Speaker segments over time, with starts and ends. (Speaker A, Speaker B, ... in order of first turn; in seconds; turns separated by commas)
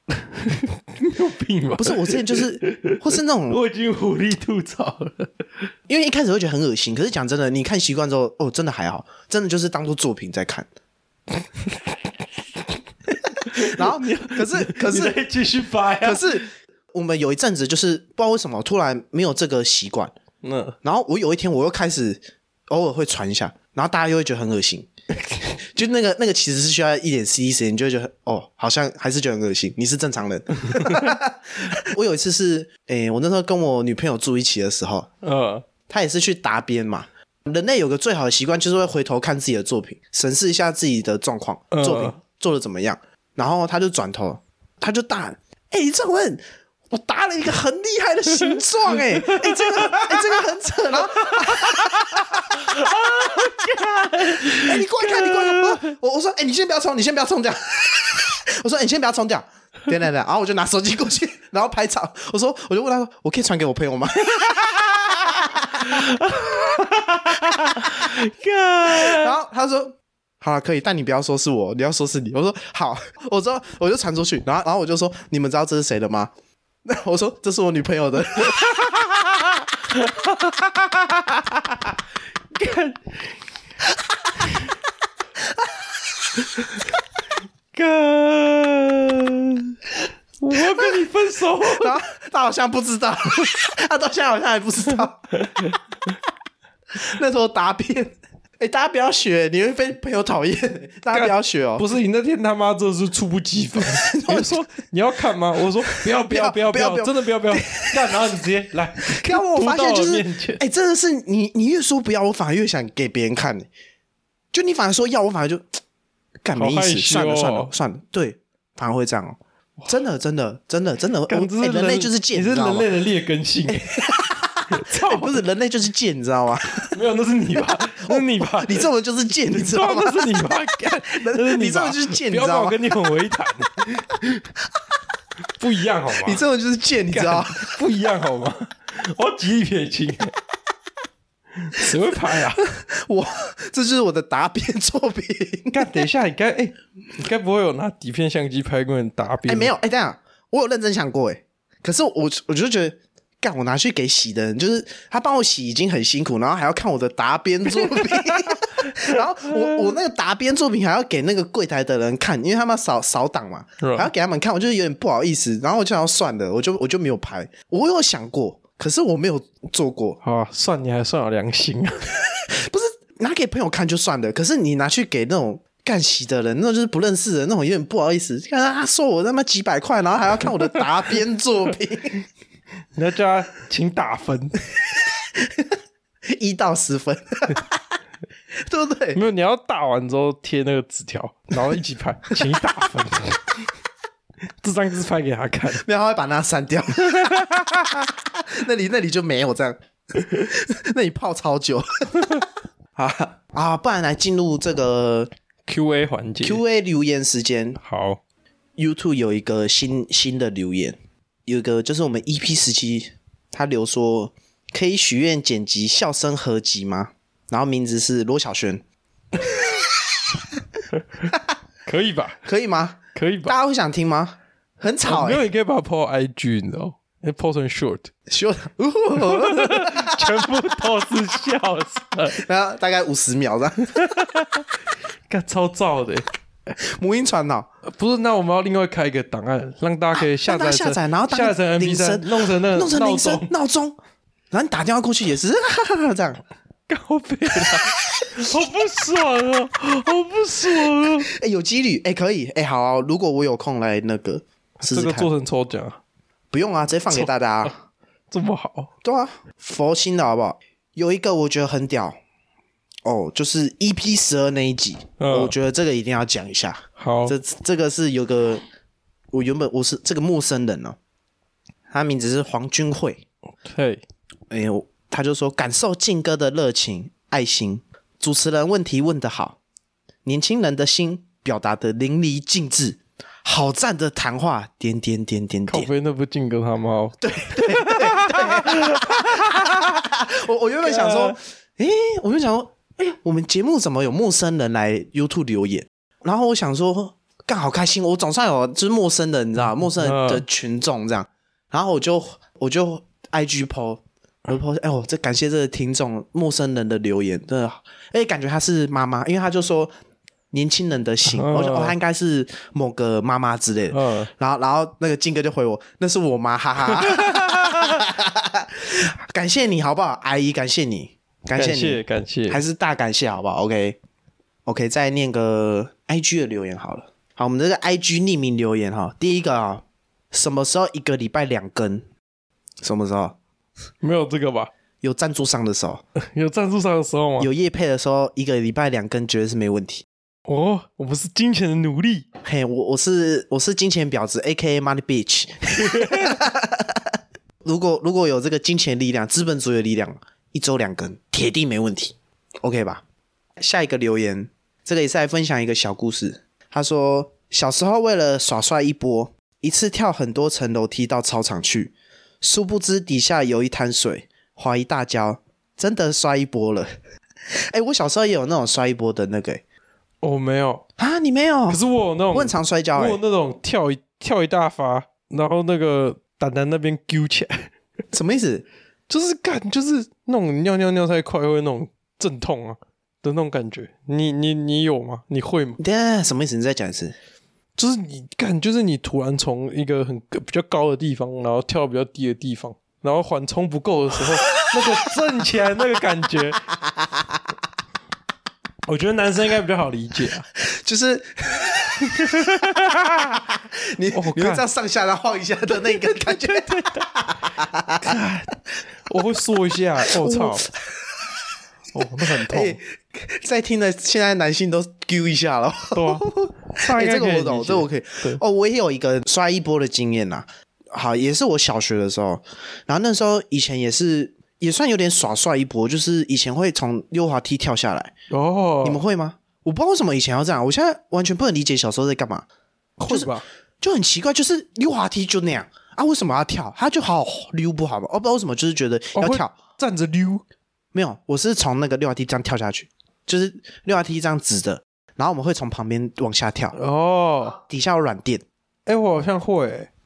Speaker A: 0.2-5.7, Speaker B: 1.8-3.6, Speaker B: 5.9-10.7, Speaker A: 11.6-11.9, Speaker B: 13.4-15.2, Speaker A: 13.4-16.5, Speaker B: 16.0-20.1, Speaker A: 20.4-20.8, Speaker B: 20.8-24.9, Speaker B: 25.5-35.1, Speaker A: 30.8-31.1, Speaker A: 35.2-35.6, Speaker B: 35.9-66.1, Speaker A: 41.7-42.1, Speaker A: 48.4-50.4, Speaker A: 51.0-55.8, Speaker A: 65.8-69.3, Speaker B: 67.3-68.1, Speaker B: 68.8-76.3, Speaker B: 76.8-79.0, Speaker A: 78.4-79.0, Speaker A: 79.9-81.5, Speaker A: 82.5-83.3, Speaker A: 87.7-92.0, Speaker B: 91.6-95.3, Speaker A: 95.4-95.7, Speaker B: 97.0-101.9, Speaker A: 101.1-110.6, Speaker B: 103.9-104.6, Speaker B: 105.9-108.3, Speaker B: 109.1-113.7, Speaker B: 114.5-115.8, Speaker B: 116.4-122.9, Speaker A: 116.5-117.7, Speaker A: 121.3-124.0, Speaker B: 123.7-127.0, Speaker A: 124.7-125.4, Speaker A: 126.9-128.9, Speaker B: 127.5-130.5, Speaker A: 129.5-134.4, Speaker B: 131.0-132.8, Speaker A: 135.6-136.4, Speaker B: 136.2-137.8, Speaker A: 137.1-140.3, Speaker A: 141.6-142.6, Speaker B: 142.6-146.0, Speaker A: 145.7-149.7, Speaker B: 149.4-170.2, Speaker A: 157.8-158.5, Speaker A: 163.8-164.1, Speaker A: 170.2-172.0, Speaker B: 172.5-182.2, Speaker A: 182.9-184.6, Speaker B: 186.3-187.7, Speaker B: 188.6-189.2, Speaker A: 189.1-193.6, Speaker A: 194.6-195.8, Speaker B: 195.8-202.4, Speaker A: 197.1-197.6, Speaker B: 202.9-205.3, Speaker A: 205.7-206.6, Speaker B: 206.4-207.8, Speaker A: 207.8-208.2, Speaker B: 208.8-218.8, Speaker A: 220.9-221.2, Speaker A: 221.8-222.4, Speaker B: 222.4-225.4, Speaker A: 223.1-223.5, Speaker A: 225.0-228.1, Speaker B: 228.3-230.5, Speaker A: 229.1-232.4, Speaker B: 232.2-234.4, Speaker A: 233.9-234.7, Speaker A: 235.3-236.2, Speaker B: 236.8-237.7, Speaker A: 237.8-243.5, Speaker B: 240.2-243.9, Speaker B: 244.5-246.4, Speaker A: 246.9-251.3, Speaker B: 247.7-248.2, Speaker B: 251.3-255.3, Speaker A: 254.8-256.0, Speaker B: 256.5-257.8, Speaker A: 257.1-257.7, Speaker A: 258.3-258.9, Speaker B: 259.0-262.1, Speaker B: 263.0-268.6, Speaker A: 265.2-265.5, Speaker A: 267.0-267.4, Speaker B: 269.3-271.0, Speaker B: 271.9-273.2, Speaker A: 273.6-274.0, Speaker B: 274.5-279.6, Speaker B: 280.2-285.9, Speaker A: 285.7-289.9, Speaker B: 287.2-309.9, Speaker A: 290.8-291.4, Speaker A: 299.8-300.4, Speaker B: 310.5-324.0, Speaker A: 311.3-312.0, Speaker A: 313.9-314.3, Speaker A: 316.9-318.0, Speaker A: 321.5-322.6, Speaker B: 324.6-332.1, Speaker B: 332.8-333.4, Speaker A: 334.0-334.7, Speaker B: 335.0-336.0, Speaker A: 336.2-337.5, Speaker B: 337.4-340.1, Speaker A: 340.4-342.3, Speaker B: 342.4-347.1, Speaker A: 345.8-346.4, Speaker B: 347.6-353.0, Speaker B: 353.6-366.9, Speaker B: 367.7-369.6, Speaker A: 370.2-370.8, Speaker B: 371.0-371.8, Speaker A: 371.7-377.7, Speaker B: 372.3-373.2, Speaker B: 378.1-378.7, Speaker A: 379.1-385.8, Speaker B: 385.8-387.1, Speaker A: 387.8-396.6, Speaker A: 398.9-400.4, Speaker B: 400.6-408.1, Speaker A: 402.1-403.0, Speaker A: 404.1-404.6, Speaker A: 405.9-407.0, Speaker A: 408.0-408.5, Speaker A: 409.0-410.7, Speaker B: 410.1-411.0, Speaker A: 411.9-412.8, Speaker B: 412.2-428.1, Speaker A: 415.9-418.4, Speaker A: 428.3-429.0, Speaker B: 428.8-432.4, Speaker A: 433.0-433.4, Speaker B: 433.1-439.5, Speaker A: 439.1-440.4, Speaker B: 440.9-446.8, Speaker A: 446.7-447.6, Speaker B: 447.6-448.4, Speaker A: 448.9-449.9